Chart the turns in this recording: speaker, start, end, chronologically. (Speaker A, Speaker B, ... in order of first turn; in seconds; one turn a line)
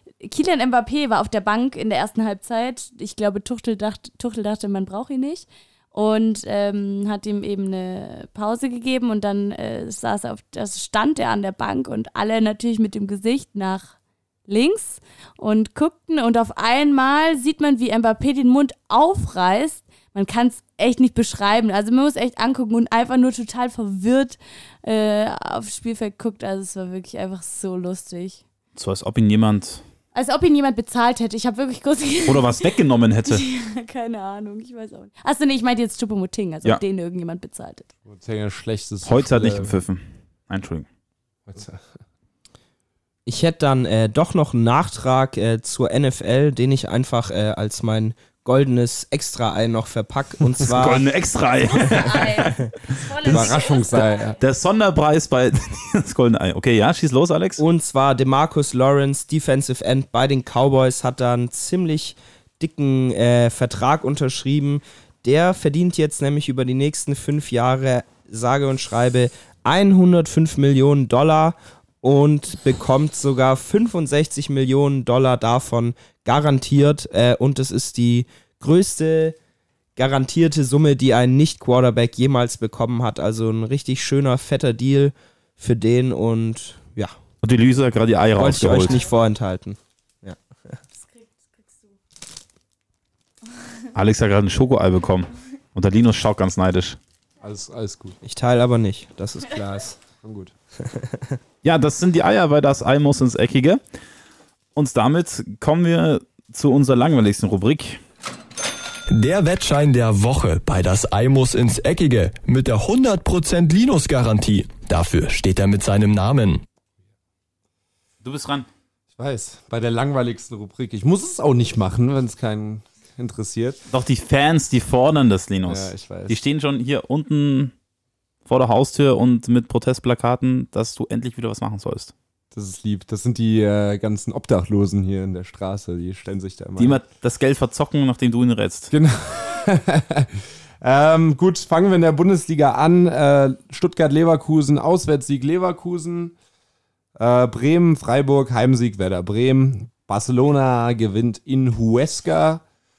Speaker A: 0.2-13.9
Speaker A: 14.5-28.4
Speaker B: 28.7-29.8
Speaker A: 30.1-37.9
Speaker B: 32.2-33.4
Speaker C: 38.0-39.8
Speaker B: 39.0-40.9
Speaker C: 41.5-41.9
Speaker D: 43.2-51.0
Speaker B: 50.7-52.5
Speaker A: 51.8-54.4
Speaker C: 53.2-54.4
Speaker B: 53.9-57.6
Speaker D: 57.6-79.3
Speaker D: 80.0-87.1
Speaker B: 87.4-89.0
Speaker D: 88.4-90.8
Speaker A: 90.9-91.9
Speaker A: 93.5-93.8
Speaker B: 93.9-97.0
Speaker C: 97.4-98.2
Speaker D: 98.2-100.0
Speaker C: 100.2-100.5
Speaker D: 100.8-101.4
Speaker B: 101.6-103.8
Speaker B: 104.7-108.0
Speaker E: 109.1-116.6
Speaker B: 118.2-118.7
Speaker C: 119.1-123.8
Speaker B: 123.9-127.7
Speaker C: 125.7-126.4
Speaker B: 128.4-132.1
Speaker C: 132.5-137.0
Speaker B: 136.8-138.9
Speaker C: 138.9-146.3
Speaker C: 147.2-152.6